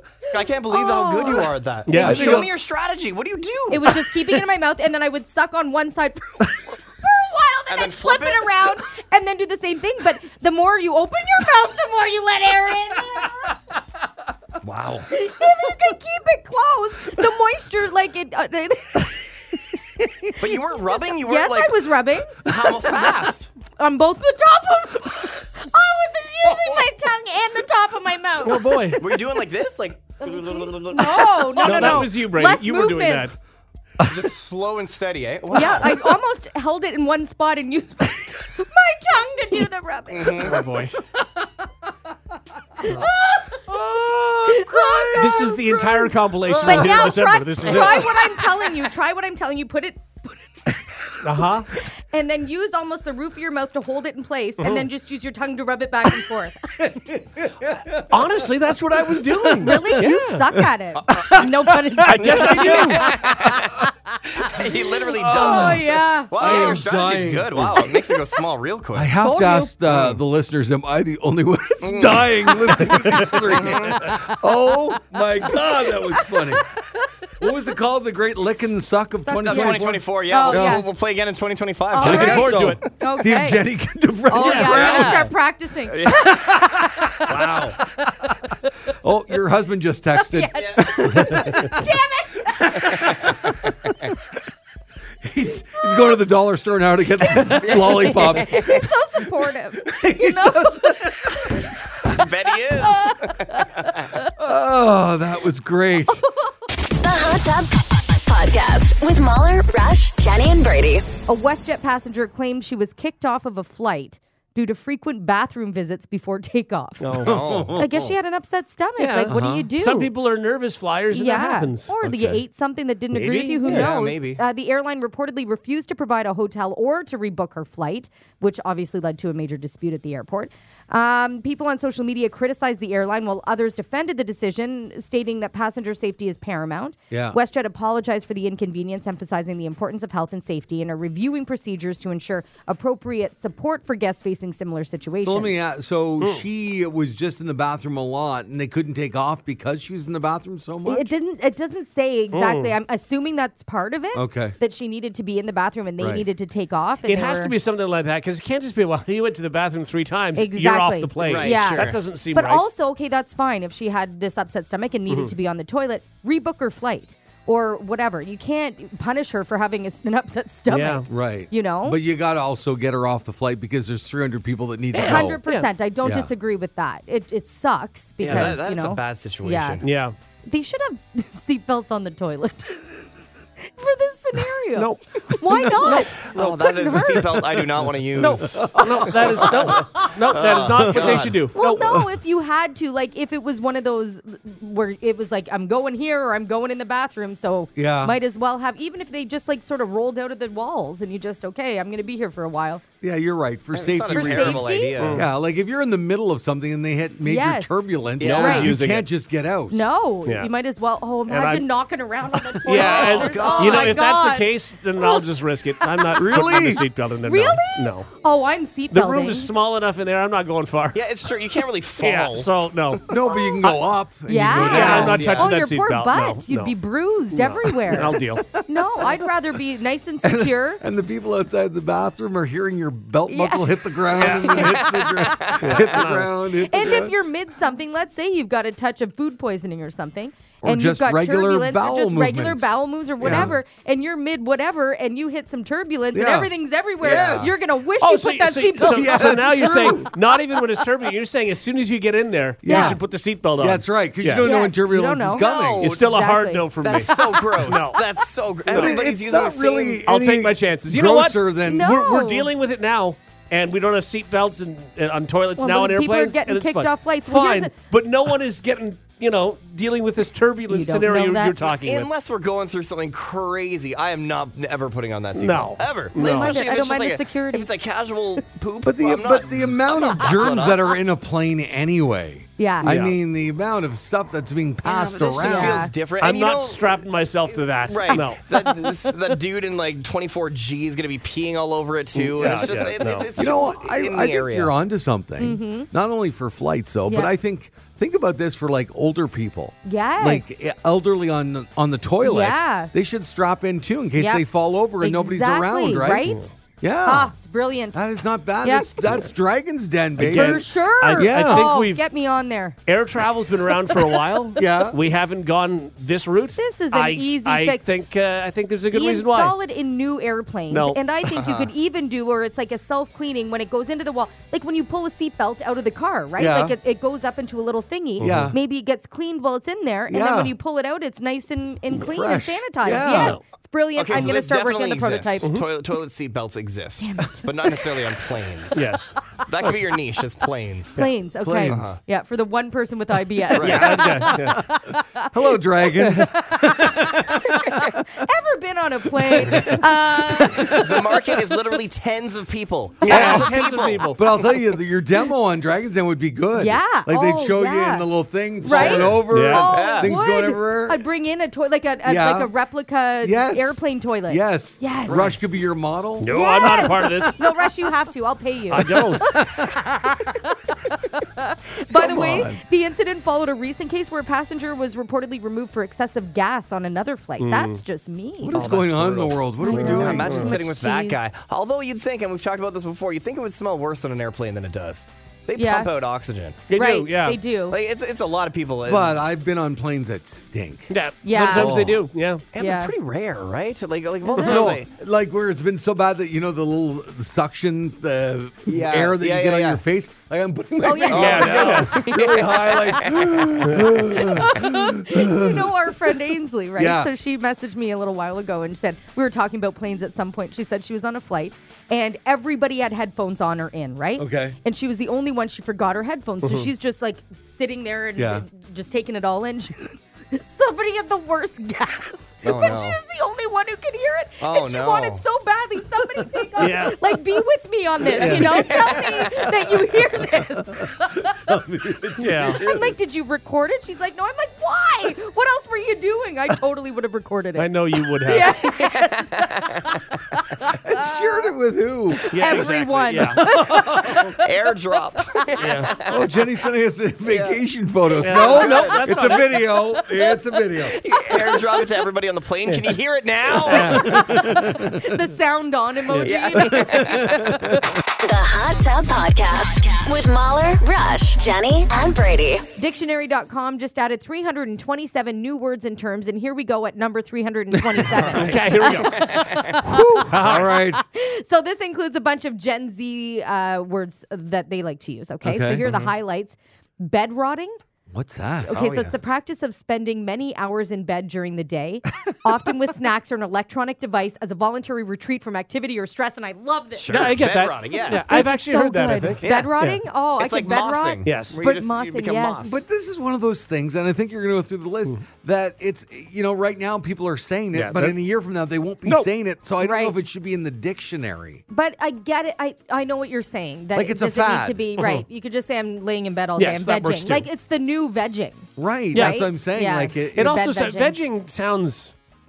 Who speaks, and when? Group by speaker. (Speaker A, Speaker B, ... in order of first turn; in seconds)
Speaker A: 0.3-4.0, 7.7-8.7, 14.6-15.1, 20.4-21.9, 22.4-23.5, 29.0-32.0, 34.0-36.0, 40.1-40.6, 60.9-61.5, 62.2-69.1, 69.9-70.2, 71.8-74.1, 79.5-82.7, 84.6-85.3, 85.9-86.4, 90.6-90.9, 97.5-98.8, 102.0-104.1, 117.2-118.1, 123.6-124.4, 161.2-162.0, 178.2-179.9, 185.9-191.3, 203.7-205.2, 208.2-209.0, 212.7-214.0, 220.9-223.1, 224.6-225.5, 234.2-236.0, 247.0-247.5, 255.2-256.0, 256.8-260.0, 271.7-281.0, 284.8-294.7, 321.3-321.7, 328.2-328.5, 333.9-338.8, 339.4-341.0, 341.7-342.0, 343.5-343.9, 350.6-354.2, 358.7-359.1, 359.7-360.1, 378.5-386.6, 387.7-389.2, 392.5-394.9, 398.7-399.8, 401.1-403.7, 422.4-423.0, 424.4-425.2, 428.1-429.3, 438.5-440.0, 444.3-446.2, 447.3-447.6, 448.3-449.1, 451.0-454.2, 456.2-457.4, 468.1-469.8, 475.8-476.1, 478.7-479.1, 486.9-488.2, 489.4-489.7, 490.4-492.8
Speaker B: 0.7-1.5, 3.7-13.5, 15.1-19.3, 20.9-22.4, 23.8-29.0, 30.2-33.3, 35.5-40.5, 42.8-43.8, 44.4-50.4, 51.8-56.7, 59.6-63.8, 65.2-66.8, 69.2-69.8, 75.6-77.1, 79.2-80.9, 81.9-83.7, 84.3-87.1, 90.2-93.3, 97.5-104.3, 111.3-120.1, 121.1-145.5, 150.8-157.5, 160.3-172.0, 175.0-179.8, 180.4-182.8, 183.6-187.4, 191.5-202.8, 204.1-205.1, 207.2-208.8, 209.7-215.2, 215.8-216.6, 217.2-219.5, 223.3-223.6, 224.2-230.8, 233.3-234.8, 236.5-250.3, 252.7-253.0, 254.4-257.4, 261.6-262.5, 265.6-267.7, 270.7-271.6, 276.1-277.7, 282.6-282.9, 285.4-285.9, 288.1-289.3, 292.4-292.8, 295.4-295.9, 297.1-297.3, 299.8-300.6, 302.2-302.9, 304.2-304.4, 305.0-306.5, 307.0-308.0, 308.6-309.1, 310.2-312.8, 316.6-317.8, 318.9-335.6, 337.0-337.7, 340.9-345.3, 346.1-351.3, 356.6-358.1, 358.6-365.3, 366.3-378.6, 379.6-381.2, 385.6-385.9, 386.7-387.8, 391.2-391.8, 392.5-392.9, 394.2-394.7, 400.8-401.8, 404.0-431.5, 432.4-439.8, 440.3-441.5, 442.1-444.5, 445.2-445.6, 450.1-451.9, 453.7-457.8, 462.8-477.8, 478.6-487.4, 488.1-492.8, 499.8-500.1, 501.7-511.1
Speaker C: 1.9-2.5, 28.4-29.0, 31.6-33.4, 40.4-41.0, 45.1-48.2, 51.2-51.7, 58.1-60.4, 62.0-63.1, 72.9-73.9, 82.0-82.8, 84.4-84.8, 87.3-87.7, 117.0-117.4, 119.0-121.9, 123.1-123.9, 152.3-152.8, 157.0-162.6, 170.7-171.1, 174.9-175.7, 179.8-180.1, 184.8-185.0, 185.6-186.4, 188.2-191.8, 205.0-205.2, 208.2-209.0, 210.2-210.5, 211.3-211.7, 212.7-218.1, 218.9-221.1, 222.0-223.1, 224.5-226.8, 227.3-228.4, 234.2-234.7, 235.6-236.3, 248.0-254.5, 255.8-258.0, 258.7-259.0, 260.0-272.1, 275.3-276.6, 282.8-283.1, 286.2-288.4, 292.1-293.3, 306.2-306.5, 310.2-312.0, 312.9-319.6, 320.7-321.0, 333.0-333.4, 335.4-335.7, 338.7-339.8, 343.6-344.6, 346.0-346.3, 353.0-354.4, 358.7-359.7, 366.2-367.4, 368.7-369.3, 377.4-377.8, 379.7-380.5, 386.7-387.4, 390.9-392.4, 401.1-402.0, 426.6-427.0, 432.2-432.6, 437.6-438.6, 442.3-443.5, 445.6-445.9, 448.2-449.6, 453.6-454.9, 468.3-469.7, 470.3-470.8, 487.1-490.0, 491.2-491.6, 497.7-498.2, 505.0-505.2, 506.6-507.5, 509.1-509.4, 510.4-512.1
Speaker D: 1.9-2.5, 34.0-34.3, 43.6-46.0, 46.5-47.1, 47.6-48.6, 56.8-63.7, 65.0-68.0, 68.9-76.6, 77.4-80.8, 82.0-85.3, 86.3-88.3, 89.0-91.9, 92.5-93.4, 95.2-98.9, 99.8-101.5, 104.3-106.2, 117.2-117.9, 119.2-119.7, 122.0-122.4, 137.1-137.4, 145.2-151.1, 154.1-154.6, 156.0-156.2, 171.1-175.4, 176.0-176.3, 178.3-178.6, 188.2-190.1, 190.6-192.1, 197.8-198.2, 203.0-209.9, 216.1-216.9, 223.1-225.3, 227.7-229.2, 230.2-237.1, 240.6-243.5, 246.1-247.6, 248.8-250.1, 252.6-253.0, 253.6-255.9, 258.7-261.9, 278.8-285.9, 293.4-307.3, 307.9-311.7, 314.6-315.0, 326.4-326.8, 328.2-328.6, 330.1-330.5, 331.9-333.4, 341.4-341.9, 343.6-348.0, 349.2-350.8, 353.1-353.5, 354.1-361.0, 362.0-362.5, 363.2-367.1, 369.2-369.8, 371.9-372.6, 378.4-380.5, 388.8-392.0, 394.4-406.0, 406.8-407.1, 414.2-414.6, 418.1-418.4, 428.2-429.4, 430.2-432.9, 440.7-442.4, 443.4-444.3, 446.0-451.0, 454.2-454.9, 456.6-457.9, 467.9-468.6, 469.8-471.0, 475.4-475.9, 478.1-478.8, 492.6-501.6, 503.9-504.8, 508.8-510.6
Speaker E: 106.9-111.1, 458.2-462.7